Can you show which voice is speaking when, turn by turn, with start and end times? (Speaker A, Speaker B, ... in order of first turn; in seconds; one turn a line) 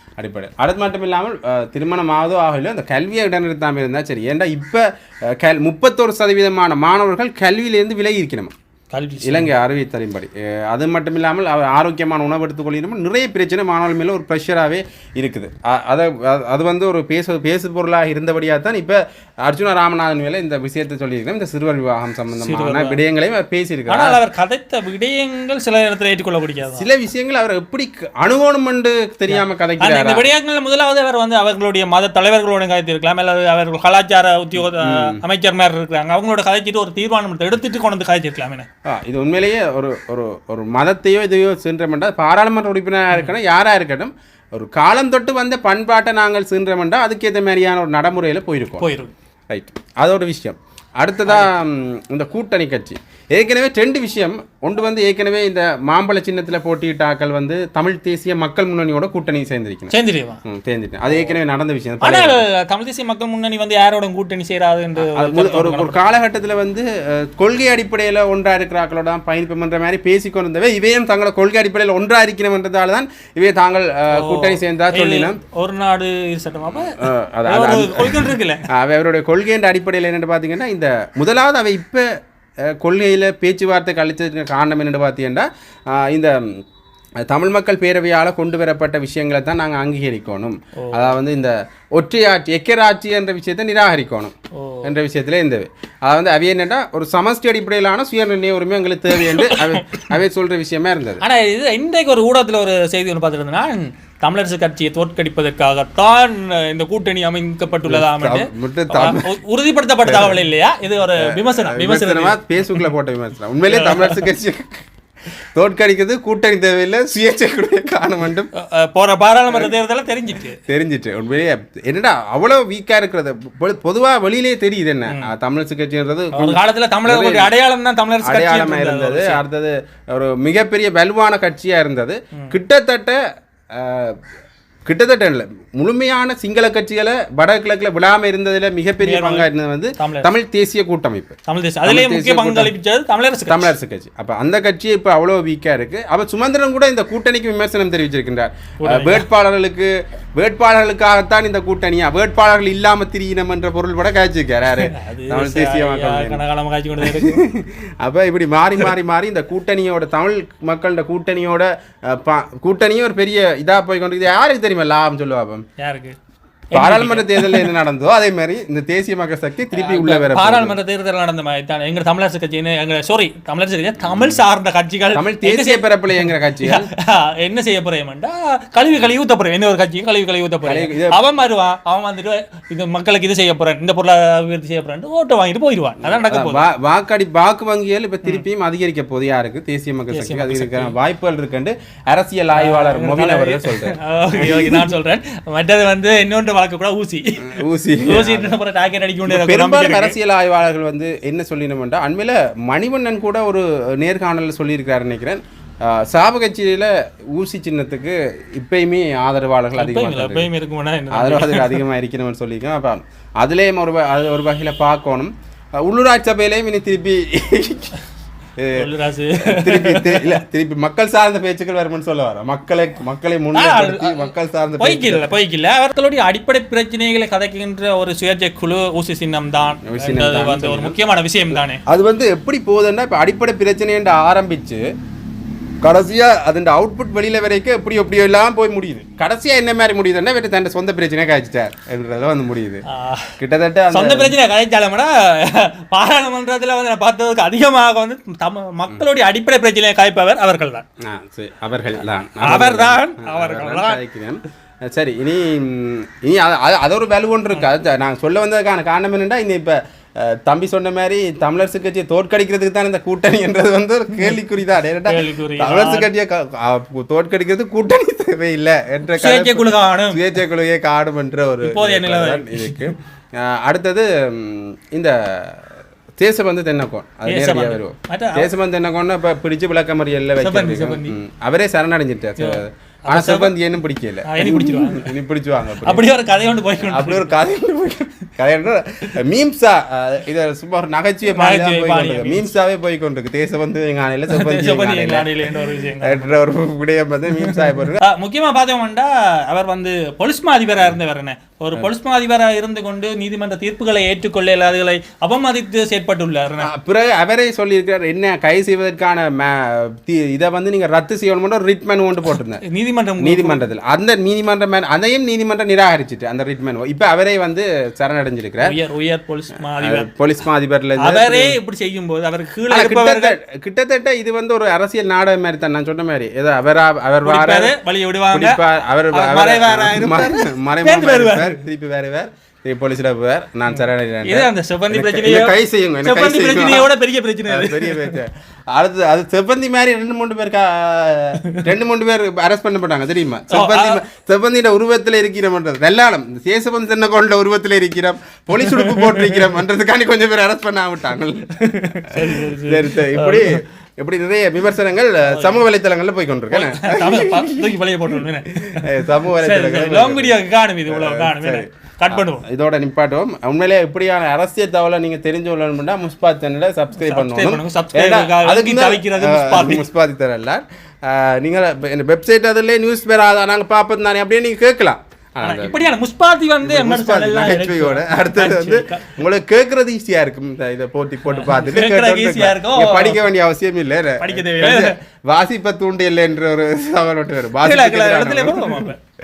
Speaker A: 0.2-8.5
Speaker B: 8.9-9.5
Speaker A: 9.2-24.2
Speaker B: 22.4-23.0
Speaker B: 23.9-26.9
Speaker A: 26.8-30.3
Speaker B: 29.3-38.7
Speaker A: 34.6-35.2
Speaker A: 38.9-48.9
Speaker B: 48.8-49.1
Speaker A: 49.5-59.9
Speaker B: 51.3-51.5
Speaker B: 59.9-60.4
Speaker A: 60.5-62.4
Speaker B: 62.0-66.0
Speaker A: 65.0-75.4
Speaker B: 74.1-78.7
Speaker A: 76.7-82.0
Speaker A: 82.7-86.4
Speaker A: 87.2-101.2
Speaker B: 90.8-91.2
Speaker B: 94.5-94.9
Speaker B: 99.1-100.1
Speaker B: 101.2-112.9
Speaker A: 107.8-109.3
Speaker A: 110.0-110.4
Speaker A: 111.2-114.9
Speaker B: 113.7-114.2
Speaker A: 115.5-118.5
Speaker B: 118.6-120.6
Speaker A: 120.6-127.5
Speaker B: 126.3-129.4
Speaker A: 128.2-133.2
Speaker A: 133.8-134.2
Speaker A: 134.9-142.7
Speaker B: 139.0-140.3
Speaker B: 141.5-143.7
Speaker A: 143.5-156.4
Speaker B: 148.8-149.3
Speaker B: 154.7-157.4
Speaker A: 157.0-165.7
Speaker B: 165.8-166.2
Speaker B: 166.7-167.7
Speaker A: 166.7-170.8
Speaker B: 169.7-186.7
Speaker A: 175.2-176.9
Speaker A: 180.7-181.2
Speaker A: 186.0-194.9
Speaker B: 190.1-190.9
Speaker B: 192.5-200.2
Speaker A: 197.4-198.5
Speaker A: 199.3-210.5
Speaker B: 209.8-211.8
Speaker A: 211.1-215.3
Speaker A: 215.8-217.9
Speaker A: 218.6-218.9
Speaker B: 218.7-220.4
Speaker A: 219.4-225.2
Speaker B: 223.5-231.8
Speaker A: 229.8-231.0
Speaker A: 231.5-234.8
Speaker A: 235.8-242.8
Speaker B: 242.9-243.3
Speaker A: 243.4-244.4
Speaker B: 243.9-250.8
Speaker A: 251.0-275.6
Speaker B: 252.4-254.0
Speaker B: 265.1-266.1
Speaker B: 269.2-270.2
Speaker B: 271.6-272.9
Speaker A: 276.2-286.1
Speaker B: 277.3-278.5
Speaker B: 280.4-281.2
Speaker B: 282.4-283.6
Speaker B: 284.2-285.2
Speaker B: 285.8-287.4
Speaker A: 286.8-295.3
Speaker B: 291.3-292.5
Speaker B: 294.3-296.4
Speaker A: 296.0-298.0
Speaker B: 297.4-306.7
Speaker A: 306.6-312.6
Speaker B: 312.6-313.6
Speaker A: 313.2-318.7
Speaker B: 318.6-320.1
Speaker A: 319.8-321.6
Speaker B: 321.0-323.4
Speaker A: 322.7-327.7
Speaker B: 327.2-328.6
Speaker A: 328.3-336.9
Speaker B: 329.1-331.6
Speaker B: 334.2-338.2
Speaker A: 337.5-360.4
Speaker B: 341.4-341.7
Speaker B: 343.5-344.0
Speaker B: 348.7-349.5
Speaker B: 351.6-353.6
Speaker B: 355.2-355.6
Speaker B: 356.5-362.5
Speaker A: 360.9-375.8
Speaker B: 367.0-369.9
Speaker B: 375.4-379.2
Speaker A: 376.6-388.9
Speaker B: 381.2-383.2
Speaker B: 384.2-385.0
Speaker B: 387.6-389.0